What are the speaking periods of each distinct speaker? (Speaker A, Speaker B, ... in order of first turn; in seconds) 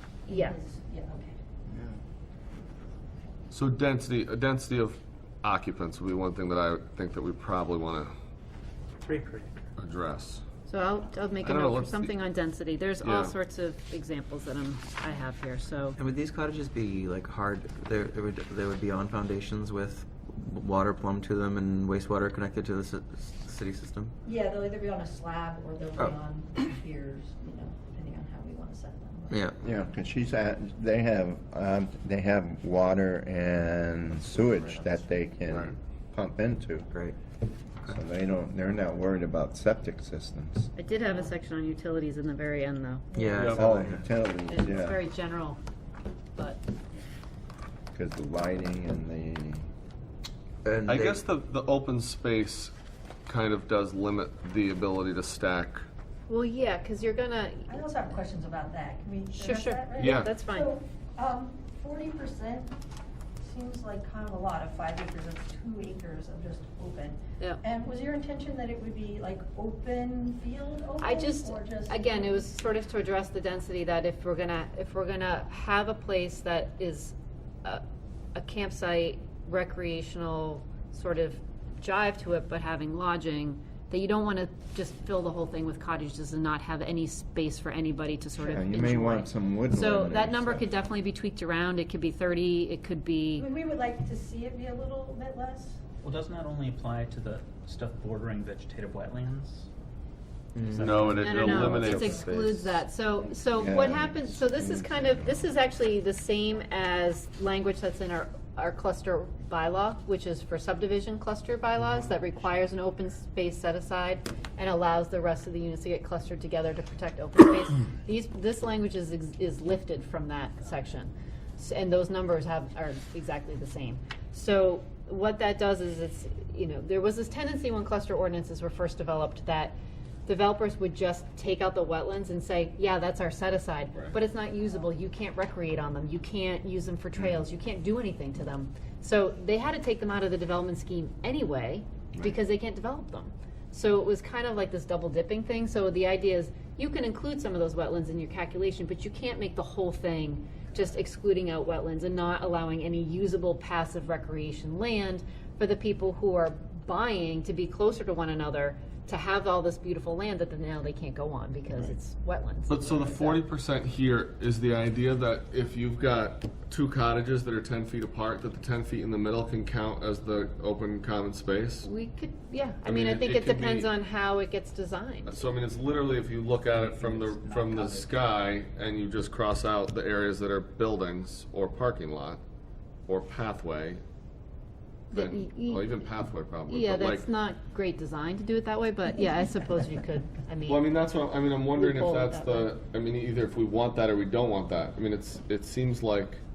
Speaker A: 0.3-1.4, 24.2-29.4, 57.7-62.7, 63.4-72.5, 93.4-95.8
Speaker B: 0.3-0.6, 10.7-16.0, 40.8-43.2, 44.5-45.6, 46.4-46.6, 56.3-57.8, 59.3-60.7, 71.0-77.8, 78.3-93.5, 101.1-163.4, 171.8-175.4, 185.1-186.0, 186.7-190.9, 191.7-192.7
Speaker C: 3.5-8.1, 9.8-10.4, 11.4-12.2, 13.0-13.3, 35.5-35.7, 43.4-43.8, 50.9-52.7, 53.3-55.9, 60.0-60.3, 100.8-102.2, 162.7-171.9, 172.8-173.9, 175.2-182.4, 183.1-184.0, 185.1-187.3, 190.7-196.4
Speaker D: 9.0-9.5, 96.0-99.7, 100.6-102.0, 176.7-178.2
Speaker E: 16.0-24.1, 29.3-29.6, 34.3-34.9, 43.1-44.1, 50.6-51.2, 100.6-100.9, 101.4-102.8
Speaker F: 29.6-36.9, 37.8-40.7, 43.4-45.0, 47.9-49.6, 88.4-90.7, 103.4-105.5